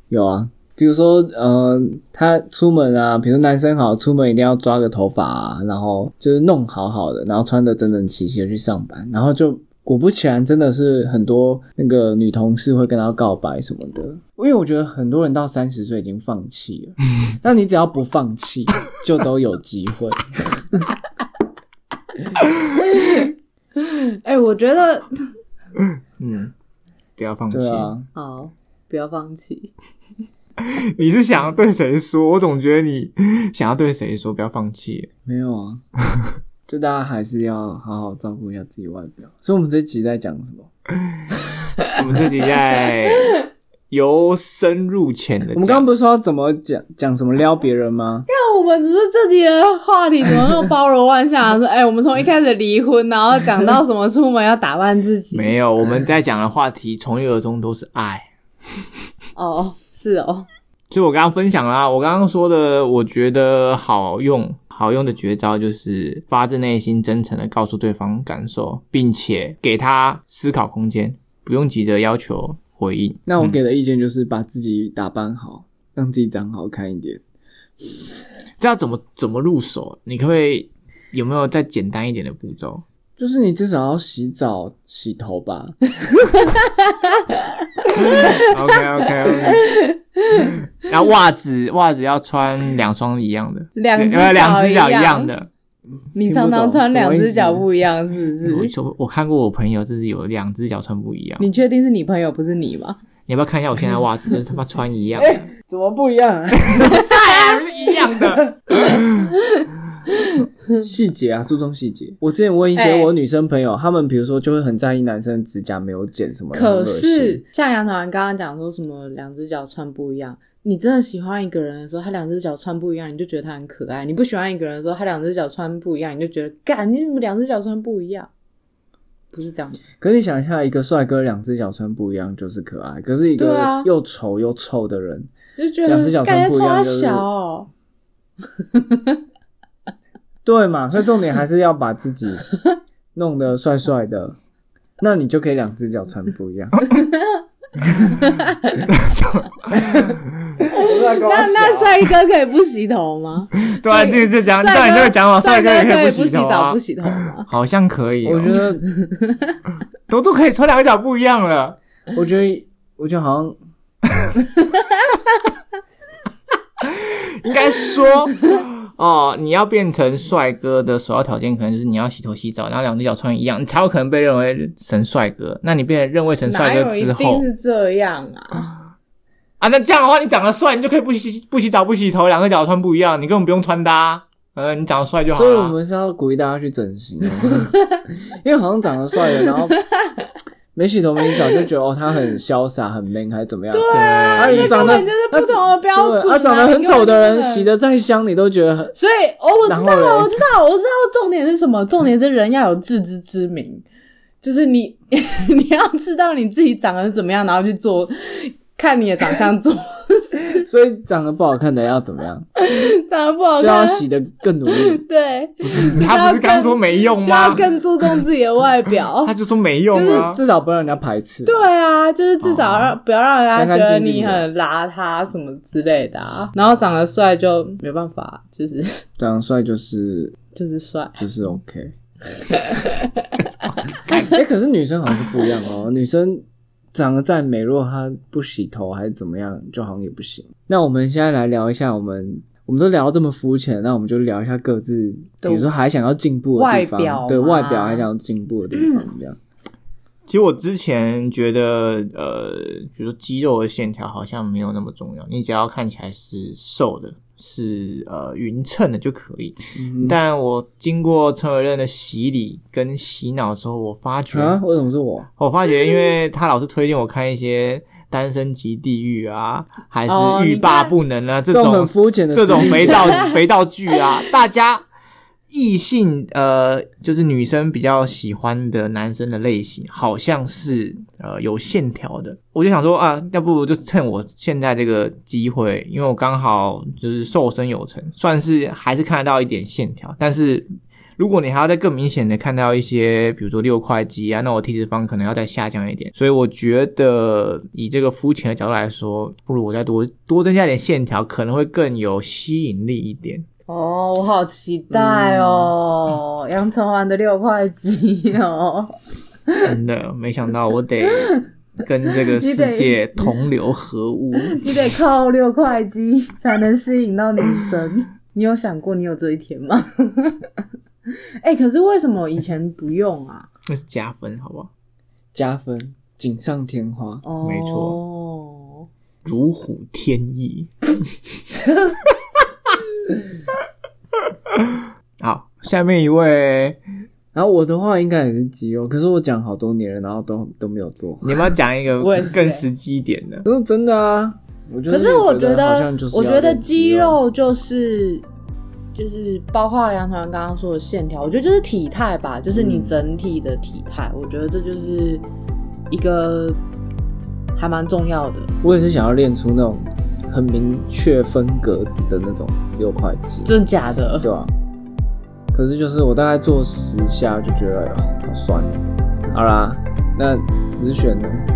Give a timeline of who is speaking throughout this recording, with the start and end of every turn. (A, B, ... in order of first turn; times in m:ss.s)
0:00.1-0:20.9 A
0:22.8-0:25.2 B
0:25.8-0:26.5 C
0:27.2-0:27.9 C
0:27.5-0:28.1 A
0:28.2-0:29.7 B
0:30.6-0:35.1 C
0:35.2-0:35.8 A
0:36.7-0:40.7 A
0:41.9-0:43.4 C
0:43.9-0:45.8 C
0:45.6-0:48.3 A
0:48.3-0:55.6 B
0:55.3-0:58.3 C
0:59.4-1:00.5 B
1:00.9-1:13.6 C
1:13.3-1:17.2 A
1:18.6-1:22.8 C
1:23.2-1:25.8 A
1:26.2-1:30.6 B
1:28.0-1:29.7 C
1:30.4-1:35.5 C
1:33.8-1:35.3 B
1:36.2-1:38.7 B
1:36.2-1:37.7 A
1:38.4-1:41.5 C
1:41.4-1:43.0 B
1:43.3-1:45.5 C
1:45.2-1:47.0 A
1:46.7-1:49.3 C
1:46.8-1:47.6 B
1:50.8-1:57.4 A
1:52.8-1:53.1 B
1:56.5-2:08.3 B
2:09.3-2:09.8 B
2:10.0-2:15.3 A
2:13.4-2:13.9 B
2:15.6-2:17.7 B
2:15.9-2:17.3 A
2:18.7-2:19.2 B
2:20.4-2:22.5 A
2:23.1-2:24.4 A
2:25.0-2:26.9 A
2:27.0-2:27.4 B
2:28.4-2:28.8 B
2:28.9-2:30.1 C
2:29.8-2:32.0 A
2:30.7-2:37.5 B
2:33.6-2:38.6 C
2:38.2-2:38.8 A
2:39.0-2:39.6 B
2:40.1-2:41.8 C
2:42.1-2:43.6 A
2:46.8-2:57.5 C
2:56.5-2:58.7 B
2:59.6-3:05.8 C
3:05.3-3:07.7 A
3:08.4-3:09.8 A
3:09.5-3:10.3 B
3:10.8-3:19.0 A
3:13.7-3:17.7 B
3:13.9-3:15.1 C
3:19.0-3:23.8 B
3:19.7-3:20.4 A
3:24.4-3:30.6 B
3:30.5-3:32.5 A
3:32.6-3:34.0 B
3:33.6-3:35.0 A
3:34.7-3:39.3 B
3:35.6-3:38.2 C
3:39.2-3:40.4 C
3:39.9-3:40.3 B
3:40.0-3:41.7 A
3:41.5-3:49.0 B
3:42.4-3:43.0 C
3:43.6-3:44.4 A
3:49.2-3:50.4 A
3:50.6-3:51.3 B
3:51.2-3:51.9 A
3:52.5-3:53.3 B
3:53.4-3:54.4 C
3:54.2-4:09.4 A
4:05.4-4:05.7 B
4:06.6-4:08.1 B
4:08.7-4:09.1 B
4:10.3-4:24.6 C
4:19.8-4:20.2 A
4:24.3-4:25.3 A
4:25.4-4:34.9 C
4:30.1-4:31.0 B
4:31.5-4:33.3 A
4:33.0-4:33.3 B
4:35.5-5:03.5 C
5:03.7-5:08.9 B
5:04.9-5:05.7 A
5:09.5-5:09.7 B
5:09.6-5:14.9 C
5:11.1-5:11.5 B
5:12.1-5:13.4 B
5:14.4-5:20.5 B
5:21.4-5:23.5 B
5:23.7-5:24.7 C
5:25.3-5:27.2 A
5:27.2-5:28.9 B
5:27.4-5:28.0 C
5:29.2-5:31.4 C
5:34.2-5:36.8 C
5:37.3-5:41.4 A
5:41.2-5:43.4 C
5:42.0-5:42.6 B
5:43.4-5:47.2 A
5:44.9-5:48.2 B
5:49.0-5:55.2 B
5:52.5-5:53.0 A
5:55.9-5:56.6 B
5:57.6-5:58.5 B
5:58.6-6:03.5 A
6:03.5-6:04.3 B
6:04.2-6:04.5 A
6:05.5-6:11.5 A